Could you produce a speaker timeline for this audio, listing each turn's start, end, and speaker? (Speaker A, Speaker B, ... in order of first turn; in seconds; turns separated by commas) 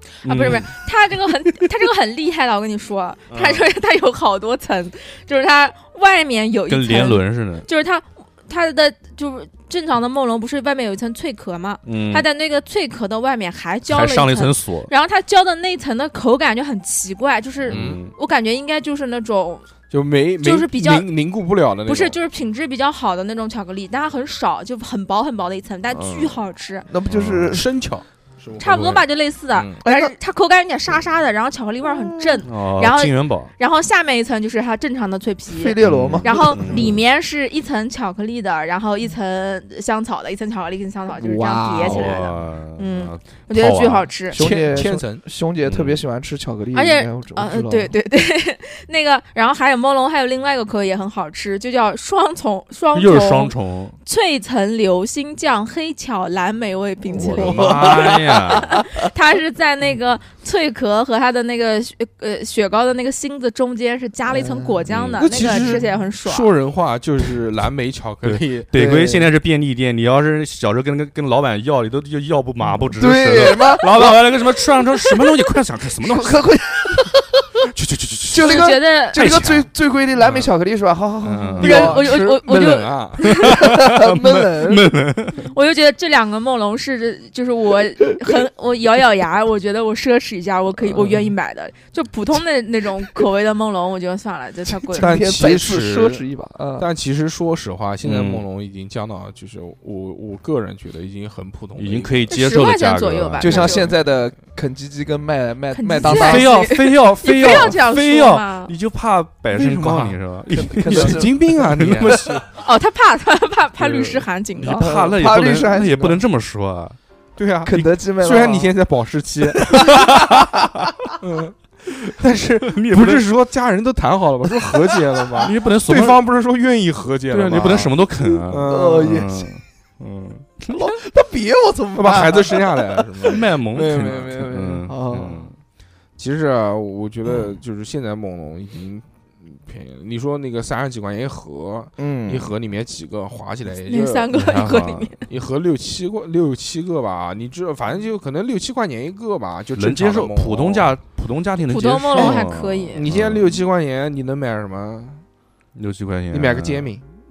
Speaker A: 0.2-19.7, Speaker B: 0.2-0.7, Speaker B: 3.3-3.6, Speaker B: 6.7-7.7, Speaker B: 11.9-12.2, Speaker B: 13.9-14.9, Speaker B: 17.6-18.1, Speaker C: 17.7-18.0, Speaker C: 19.9-22.2, Speaker A: 20.4-21.1, Speaker A: 21.9-26.9, Speaker C: 25.9-26.4, Speaker D: 26.9-27.6, Speaker B: 27.1-27.6, Speaker C: 27.4-29.8, Speaker A: 28.6-44.4, Speaker D: 29.8-30.1, Speaker B: 32.4-33.5, Speaker D: 35.5-36.9, Speaker B: 35.8-37.0, Speaker D: 41.1-42.2, Speaker B: 41.8-44.1, Speaker D: 44.3-47.9, Speaker C: 44.3-45.2, Speaker B: 45.6-46.0, Speaker A: 46.7-66.5, Speaker B: 52.9-54.0, Speaker D: 57.1-59.0, Speaker B: 57.2-58.9, Speaker D: 64.3-64.8, Speaker B: 64.9-65.5, Speaker C: 65.2-69.3, Speaker B: 68.2-76.5, Speaker D: 73.0-74.2, Speaker D: 75.0-75.3, Speaker D: 76.0-77.5, Speaker C: 77.7-79.6, Speaker D: 78.3-82.0, Speaker A: 78.4-79.2, Speaker B: 79.2-79.5, Speaker B: 81.2-81.9, Speaker C: 81.3-83.4, Speaker A: 81.6-83.6, Speaker B: 83.4-85.5, Speaker D: 83.5-84.9, Speaker A: 85.4-95.4, Speaker C: 94.9-96.2, Speaker D: 94.9-96.9, Speaker C: 96.8-102.2, Speaker B: 98.0-98.4, Speaker B: 101.8-103.9, Speaker A: 102.3-103.9, Speaker D: 103.4-106.5, Speaker A: 105.7-108.7, Speaker B: 106.0-112.4, Speaker C: 109.5-110.2, Speaker D: 110.5-111.5, Speaker C: 110.8-112.4, Speaker A: 112.6-114.8, Speaker B: 114.5-117.0, Speaker D: 114.6-116.2, Speaker C: 117.4-119.8, Speaker D: 117.6-118.7, Speaker B: 119.6-120.4, Speaker D: 119.9-120.9, Speaker C: 121.2-129.3, Speaker B: 122.6-123.3, Speaker B: 125.4-126.2, Speaker B: 127.3-130.7, Speaker D: 128.6-129.5, Speaker D: 130.7-135.5, Speaker C: 131.9-134.4, Speaker B: 133.2-135.5, Speaker C: 136.2-144.3, Speaker D: 142.0-142.5, Speaker A: 143.8-145.2, Speaker B: 144.3-145.1, Speaker C: 145.2-150.9, Speaker B: 149.8-153.6, Speaker A: 151.7-153.1, Speaker C: 152.9-155.2, Speaker B: 155.7-156.9, Speaker C: 156.3-157.0